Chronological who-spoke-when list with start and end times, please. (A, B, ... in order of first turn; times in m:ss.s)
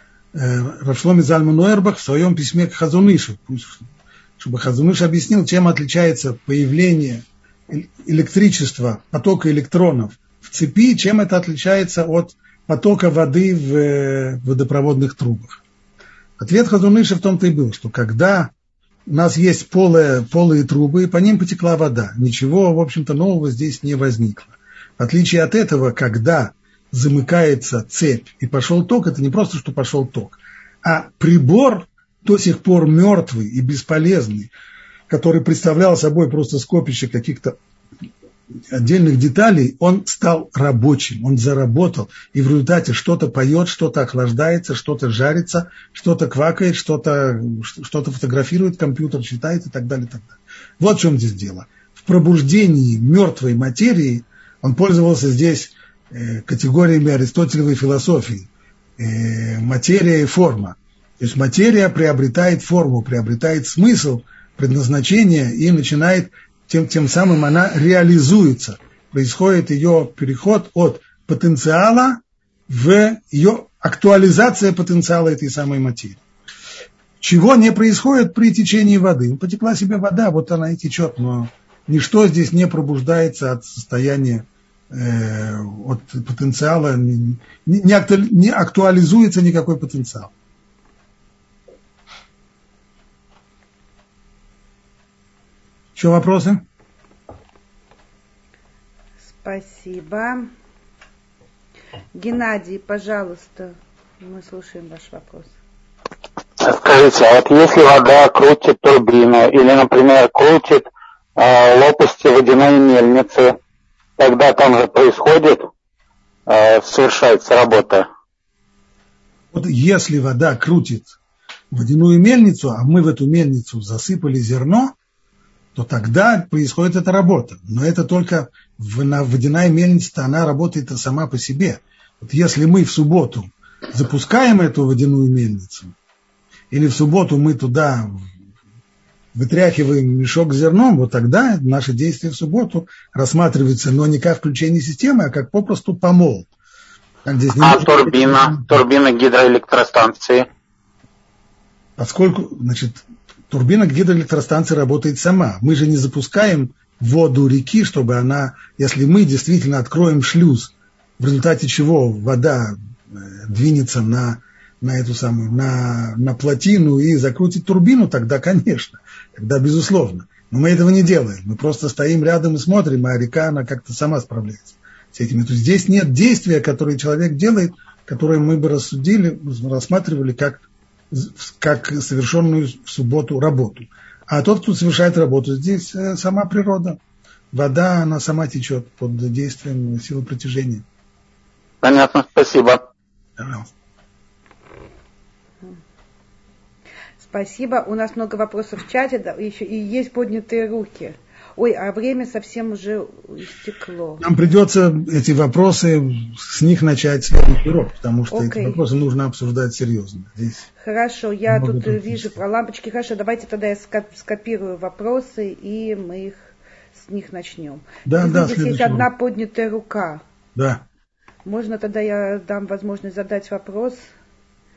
0:00.3-0:03.8 A
0:04.4-0:15.6 A
0:16.4-0:18.5 A
0:19.1-0:34.5 A
0:35.1-0:37.6 A
0:38.7-1:16.2 A
1:17.2-1:30.3 A
1:36.0-1:36.6 A
1:39.2-1:40.5 B
1:42.1-1:45.5 B
1:46.6-1:53.6 C
1:54.2-1:55.7 C
1:56.5-1:58.1 C
1:59.5-2:01.1 A
2:01.7-2:04.9 A
2:05.7-2:15.9 A
2:16.7-2:18.3 A
2:19.3-2:26.5 A
2:27.2-2:28.7 A
2:27.6-2:30.4 C
2:32.0-3:07.0 A
3:07.5-3:10.8 A
3:11.8-3:12.8 C
3:13.4-3:13.7 A
3:17.2-3:24.2 B
3:24.2-3:30.6 A
3:28.3-3:28.8 B
3:30.8-3:40.2 B
3:31.5-3:32.4 A
3:38.0-3:39.1 A
3:40.5-3:40.8 A
3:41.4-3:44.1 B